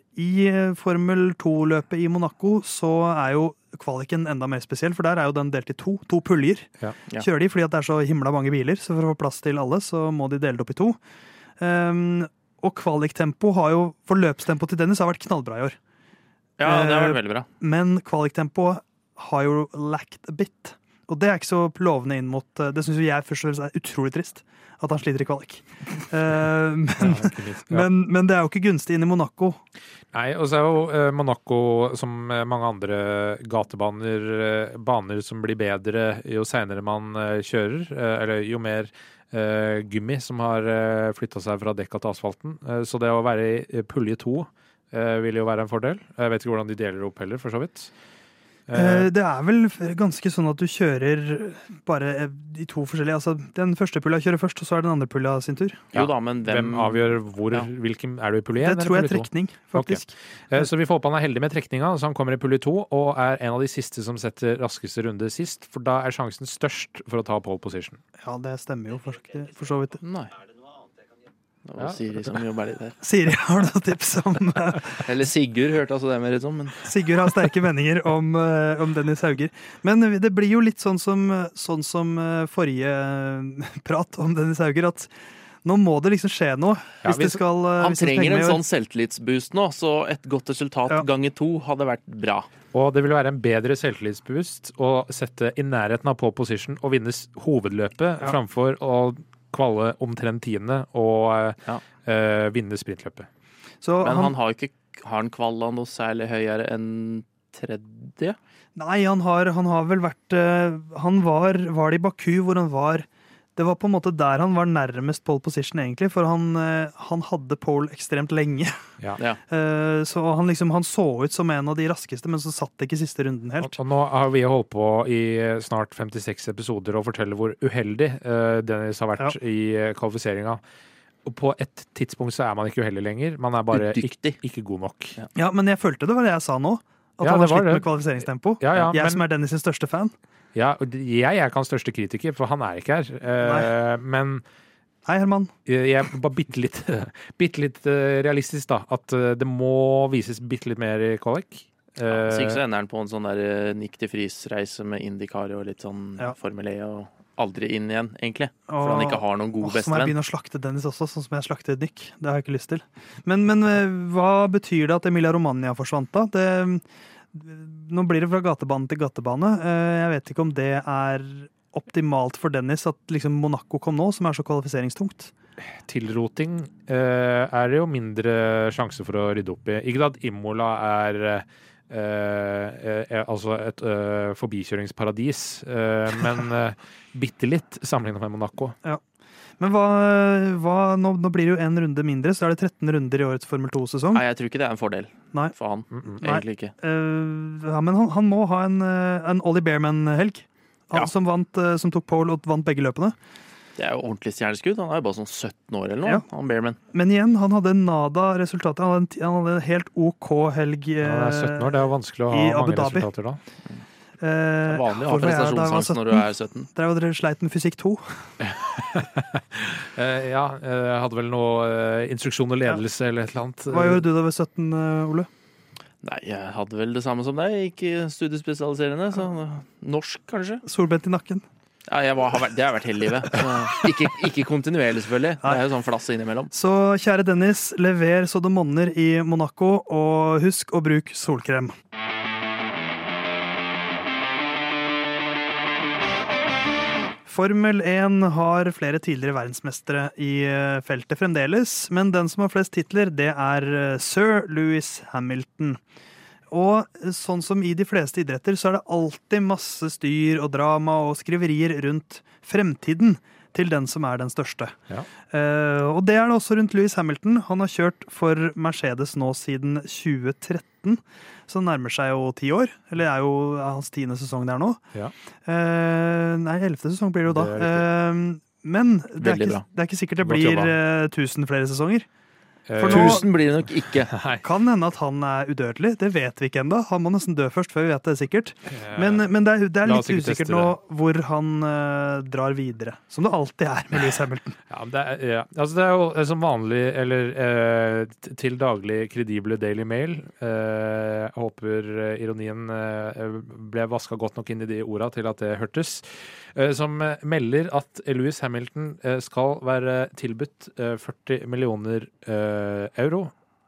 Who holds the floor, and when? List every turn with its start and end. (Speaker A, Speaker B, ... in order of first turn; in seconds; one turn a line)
Speaker A: 0.2-11.0
Speaker A: 11.6-15.8
Speaker B: 16.6-17.5
Speaker A: 16.6-29.6
Speaker C: 27.0-27.9
Speaker C: 30.1-47.9
Speaker C: 48.7-49.1
Speaker A: 48.7-55.8
Speaker B: 55.9-57.7
Speaker C: 55.9-68.0
Speaker A: 58.6-60.6
Speaker A: 68.2-70.0
Speaker B: 70.0-70.4
Speaker B: 71.7-73.0
Speaker A: 73.0-75.0
Speaker B: 75.0-76.9
Speaker A: 76.8-85.1
Speaker A: 85.6-88.6
Speaker C: 87.0-87.4
Speaker B: 87.8-92.5
Speaker C: 92.7-103.3
Speaker A: 103.8-104.3
Speaker B: 104.0-108.4
Speaker A: 108.8-118.8
Speaker A: 119.5-123.7
Speaker C: 123.6-130.6
Speaker C: 131.2-135.2
Speaker B: 133.7-134.4
Speaker A: 135.3-140.1
Speaker C: 137.2-137.9
Speaker C: 138.6-139.2
Speaker C: 140.6-144.4
Speaker A: 143.4-143.7
Speaker A: 145.1-145.5
Speaker C: 145.7-152.6
Speaker B: 152.1-160.2
Speaker A: 158.7-166.8
Speaker A: 167.3-175.3
Speaker C: 175.8-188.8
Speaker A: 189.6-194.2
Speaker B: 194.1-196.7
Speaker C: 195.9-196.2
Speaker A: 196.2-203.2
Speaker B: 203.8-206.8
Speaker A: 206.9-213.1
Speaker C: 211.0-213.4
Speaker A: 214.2-218.2
Speaker B: 214.7-216.7
Speaker C: 218.4-224.0
Speaker A: 223.7-225.3
Speaker B: 226.0-230.6
Speaker A: 230.7-231.4
Speaker B: 231.9-236.5
Speaker A: 236.5-241.7
Speaker A: 247.3-255.8
Speaker A: 256.5-264.8
Speaker A: 265.3-274.8
Speaker A: 275.5-282.1
Speaker C: 277.3-277.9
Speaker B: 279.2-279.6
Speaker C: 280.2-280.8
Speaker C: 282.7-283.3
Speaker A: 282.8-283.3
Speaker B: 282.8-284.1
Speaker C: 284.1-284.4
Speaker A: 284.4-294.6
Speaker C: 288.7-289.3
Speaker C: 289.8-290.7
Speaker C: 294.7-313.3